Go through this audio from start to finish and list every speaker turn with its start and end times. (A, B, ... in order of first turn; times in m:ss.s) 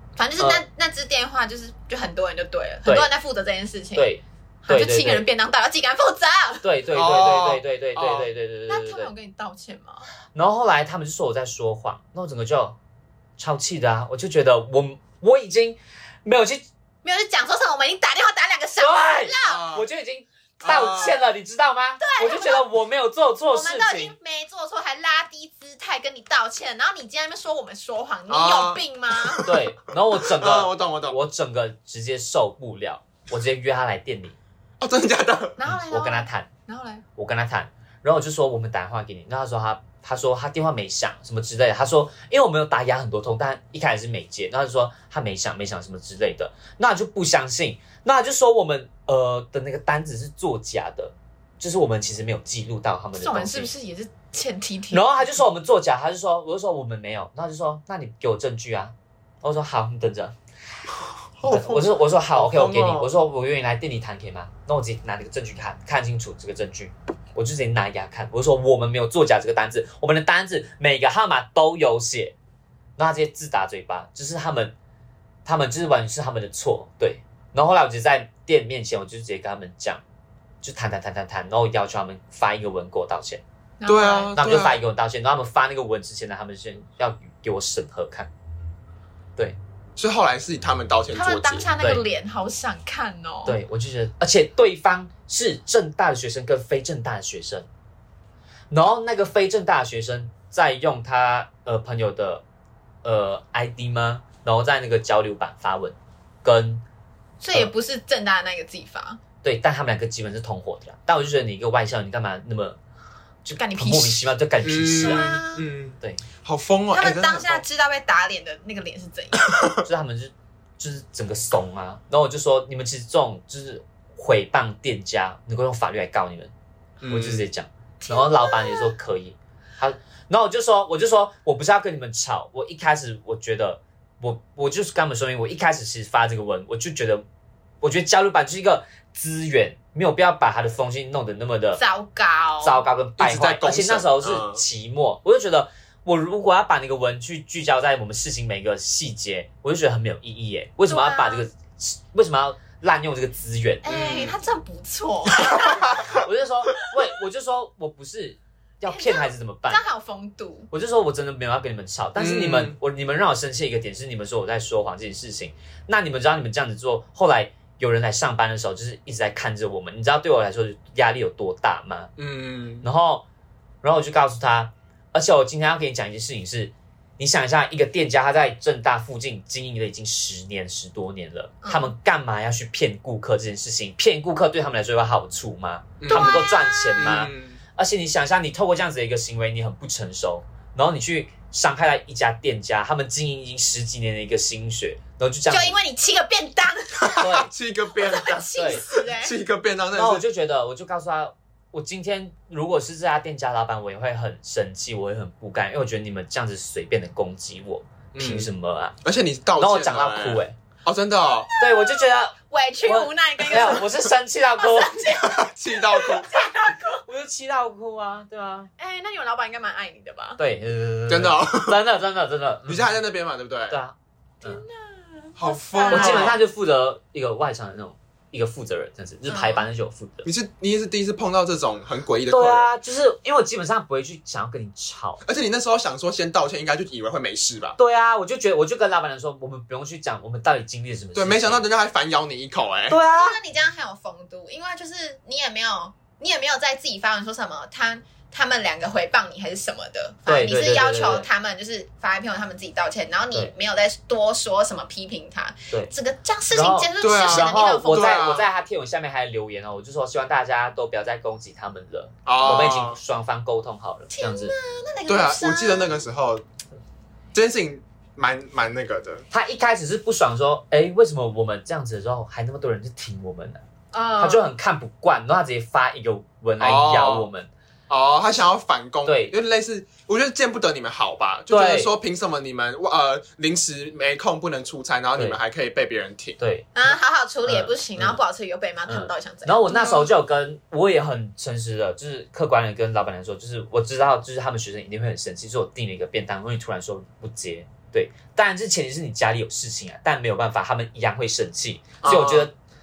0:00.2-0:04.1 A
0:04.0-0:05.2 B
0:04.6-0:06.6 A
0:06.6-0:09.1 B
0:06.9-0:08.3 C
0:08.7-0:10.1 A
0:10.3-0:12.8 B
0:13.4-0:16.7 B
0:17.0-0:19.6 A
0:18.8-0:24.1 B
0:19.4-0:19.8 C
0:20.6-0:21.2 C
0:22.0-0:22.6 A
0:23.5-0:29.4 A
0:28.3-0:29.6 C
0:29.4-0:34.4 B
0:30.1-0:31.2 C
0:34.8-0:35.6 C
0:35.6-0:37.0 A
0:35.7-0:36.5 B
0:37.2-0:53.7 B
0:53.2-0:55.3 A
0:54.9-1:00.3 B
1:01.4-1:03.1 C
1:01.5-1:12.3 B
1:13.0-1:14.8 B
1:15.4-1:20.0 B
1:20.6-1:23.4 B
1:23.8-1:24.3 A
1:23.9-1:24.8 C
1:24.4-1:28.3 B
1:30.0-1:31.7 C
1:31.1-1:33.6 A
1:33.4-1:37.7 B
1:38.7-1:42.4 B
1:43.0-1:46.8 B
1:47.4-1:49.2 A
1:49.4-1:52.8 B
1:53.4-1:55.4 B
1:53.6-1:54.3 A
1:54.6-1:57.6 C
1:55.0-1:55.7 A
1:56.9-1:59.5 A
1:59.8-2:06.5 B
2:07.0-2:07.4 C
2:07.1-2:17.2 B
2:08.0-2:08.9 A
2:17.8-2:21.8 B
2:21.8-2:22.8 A
2:22.6-2:34.0 B
2:23.2-2:24.6 C
2:30.9-2:31.5 A
2:33.8-2:36.0 A
2:33.9-2:34.4 C
2:36.1-2:39.8 B
2:38.8-2:40.7 A
2:40.7-2:52.1 B
2:42.2-2:42.8 C
2:52.2-2:52.8 C
2:52.8-2:53.2 B
2:53.8-3:15.8 B
3:01.6-3:01.9 A
3:06.0-3:07.6 C
3:06.1-3:07.1 A
3:15.5-3:17.3 A
3:17.0-3:20.2 C
3:17.2-3:17.5 B
3:17.9-3:19.3 A
3:18.6-3:18.8 B
3:19.9-3:28.9 B
3:28.1-3:28.5 C
3:29.0-3:31.5 C
3:29.6-3:30.6 B
3:31.5-3:33.9 A
3:31.6-3:35.0 B
3:34.6-3:37.0 A
3:35.0-3:36.3 C
3:37.0-3:38.7 B
3:38.8-3:40.4 A
3:40.4-3:42.9 B
3:41.1-3:41.8 C
3:42.6-3:43.8 C
3:43.7-3:44.6 B
3:44.4-3:46.4 A
3:45.4-3:46.4 C
3:45.9-3:50.3 B
3:49.3-3:49.6 A
3:50.2-3:52.7 C
3:52.3-3:55.2 B
3:55.2-3:57.8 C
3:57.8-4:01.6 B
4:01.1-4:03.0 C
4:02.9-4:03.4 B
4:03.1-4:18.3 A
4:10.3-4:11.3 B
4:16.5-4:24.5 B
4:17.0-4:18.5 C
4:22.3-4:23.0 C
4:22.3-4:22.7 A
4:24.1-4:26.0 A
4:25.1-4:26.4 C
4:27.3-4:29.2 C
4:29.3-4:33.6 B
4:33.9-4:34.5 A
4:34.2-4:37.5 B
4:36.6-4:37.3 C
4:37.9-4:46.4 C
4:39.0-4:39.3 B
4:41.5-4:41.9 B
4:46.4-4:48.2 B
4:46.7-4:50.1 A
4:48.9-5:02.5 B
5:02.0-5:02.5 C